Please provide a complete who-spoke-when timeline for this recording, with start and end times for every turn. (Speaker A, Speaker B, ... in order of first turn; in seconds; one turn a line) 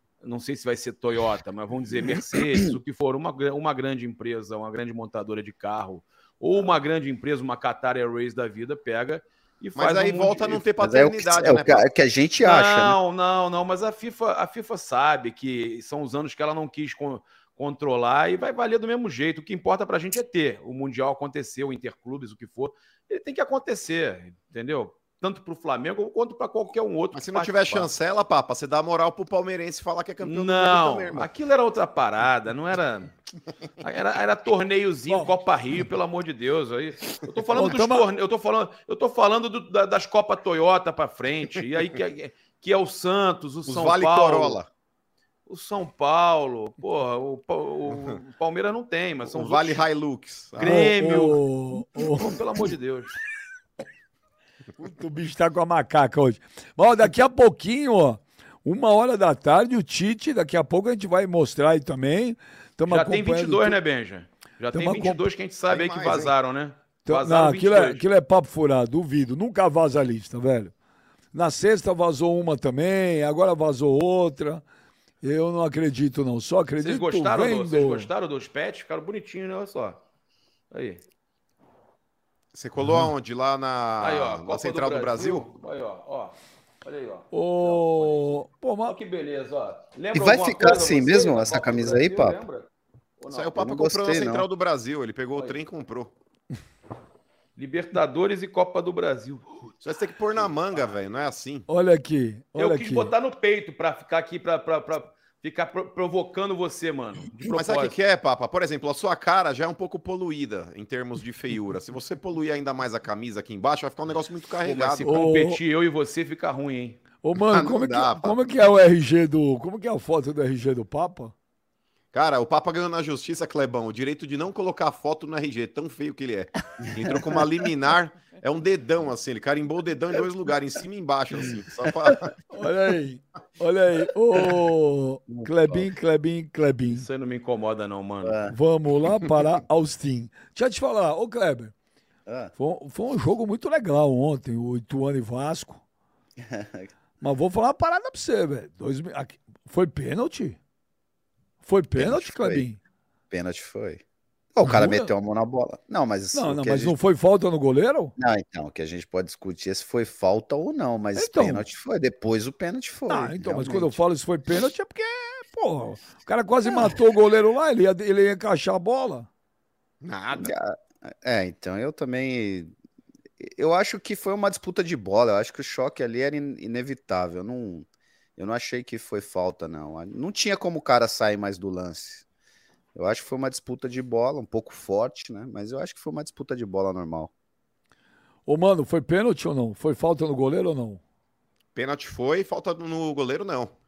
Speaker A: 0.2-10.6
Speaker B: 9.8-11.8
Speaker C: 10.8-13.0
Speaker A: 12.4-27.9
Speaker B: 27.1-31.3
Speaker A: 30.2-33.1
Speaker A: 33.8-44.6
Speaker D: 37.5-38.1
Speaker B: 43.7-44.7
Speaker A: 45.5-49.9
Speaker B: 47.9-48.1
Speaker B: 49.2-50.9
Speaker A: 50.5-51.4
Speaker D: 50.6-52.3
Speaker A: 51.9-53.2
Speaker D: 54.8-63.8
Speaker A: 62.9-68.0
Speaker D: 64.7-65.2
Speaker B: 65.7-66.3
Speaker D: 67.0-70.7
Speaker D: 71.3-74.6
Speaker D: 75.2-78.1
Speaker A: 76.8-80.0
Speaker A: 80.7-81.0
Speaker B: 82.5-85.5
Speaker A: 84.0-92.7
Speaker D: 87.3-89.0
Speaker C: 90.1-92.4
Speaker A: 93.2-93.5
Speaker B: 93.3-96.1
Speaker C: 93.5-94.5
Speaker A: 97.5-99.4
Speaker B: 99.8-101.7
Speaker D: 101.7-103.1
Speaker A: 102.6-107.9
Speaker B: 107.5-115.2
Speaker A: 114.6-117.0
Speaker D: 115.0-115.6
Speaker D: 117.2-121.3
Speaker B: 117.4-118.4
Speaker B: 122.1-132.3
Speaker D: 132.5-137.0
Speaker C: 135.3-135.8
Speaker A: 136.9-138.4
Speaker C: 138.2-138.6
Speaker D: 138.5-141.7
Speaker C: 142.2-142.5
Speaker D: 142.5-145.8
Speaker C: 146.4-146.9
Speaker D: 147.2-150.6
Speaker D: 151.6-152.8
Speaker C: 151.9-152.6
Speaker C: 153.3-154.0
Speaker C: 154.5-156.9
Speaker D: 154.6-155.1
Speaker D: 156.3-158.1
Speaker C: 158.2-164.0
Speaker D: 161.2-161.6
Speaker D: 163.1-169.3
Speaker C: 166.7-166.9
Speaker B: 170.0-170.5
Speaker C: 170.3-172.7
Speaker C: 173.4-182.2
Speaker C: 182.9-187.3
Speaker D: 188.4-191.0
Speaker B: 191.7-193.7